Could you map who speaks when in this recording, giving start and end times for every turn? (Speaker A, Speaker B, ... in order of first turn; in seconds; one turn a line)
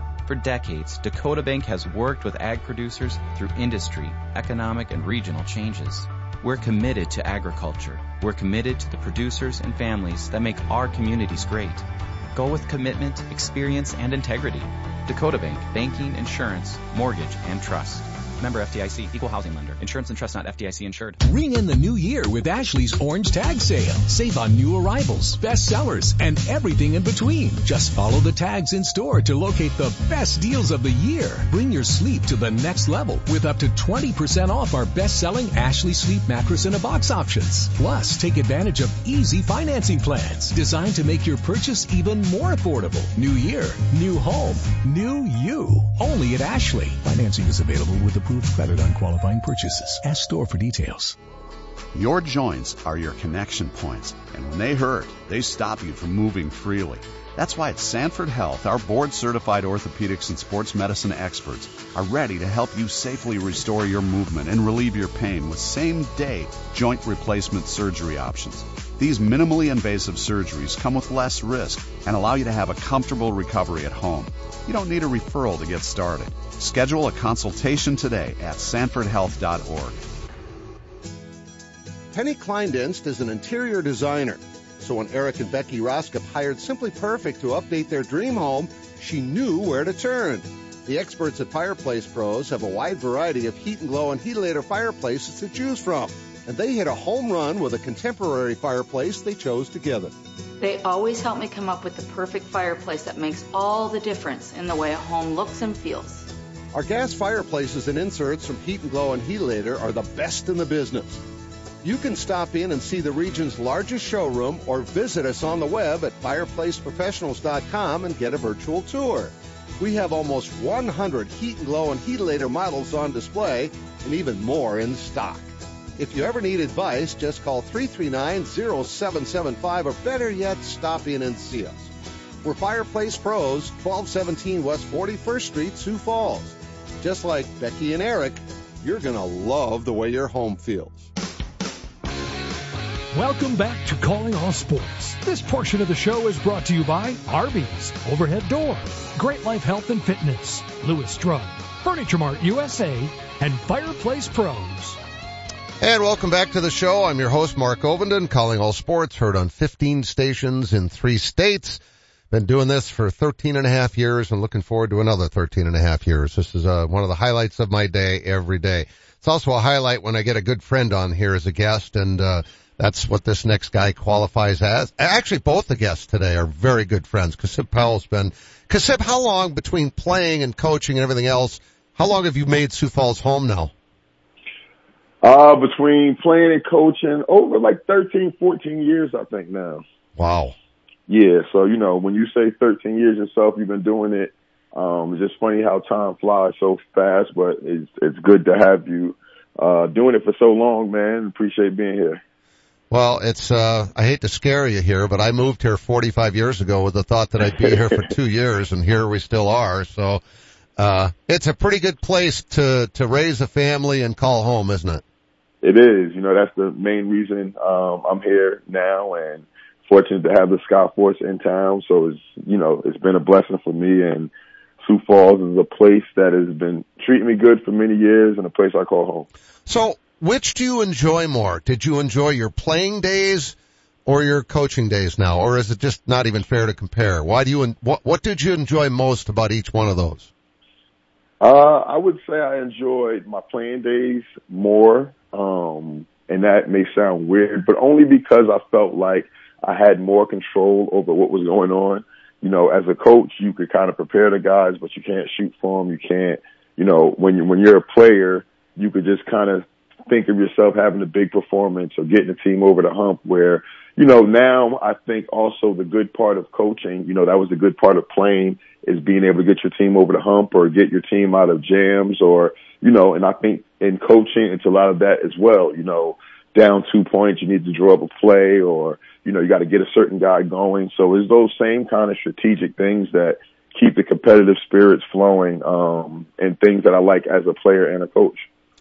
Speaker A: 0.2-21.2
Speaker B: 21.2-51.2
Speaker C: 51.9-80.0
Speaker D: 82.1-100.1
Speaker E: 100.6-106.3
Speaker D: 106.7-111.2
Speaker D: 111.8-131.9
Speaker D: 132.4-141.1
Speaker F: 143.1-155.0
Speaker D: 155.8-161.8
Speaker D: 162.3-183.7
Speaker G: 185.2-189.8
Speaker D: 190.2-190.6
Speaker G: 191.1-202.2
Speaker D: 202.9-210.2
Speaker D: 210.8-215.0
Speaker G: 215.6-224.3
Speaker G: 224.8-229.3
Speaker D: 229.7-233.6
Speaker D: 234.1-240.3
Speaker G: 241.4-288.5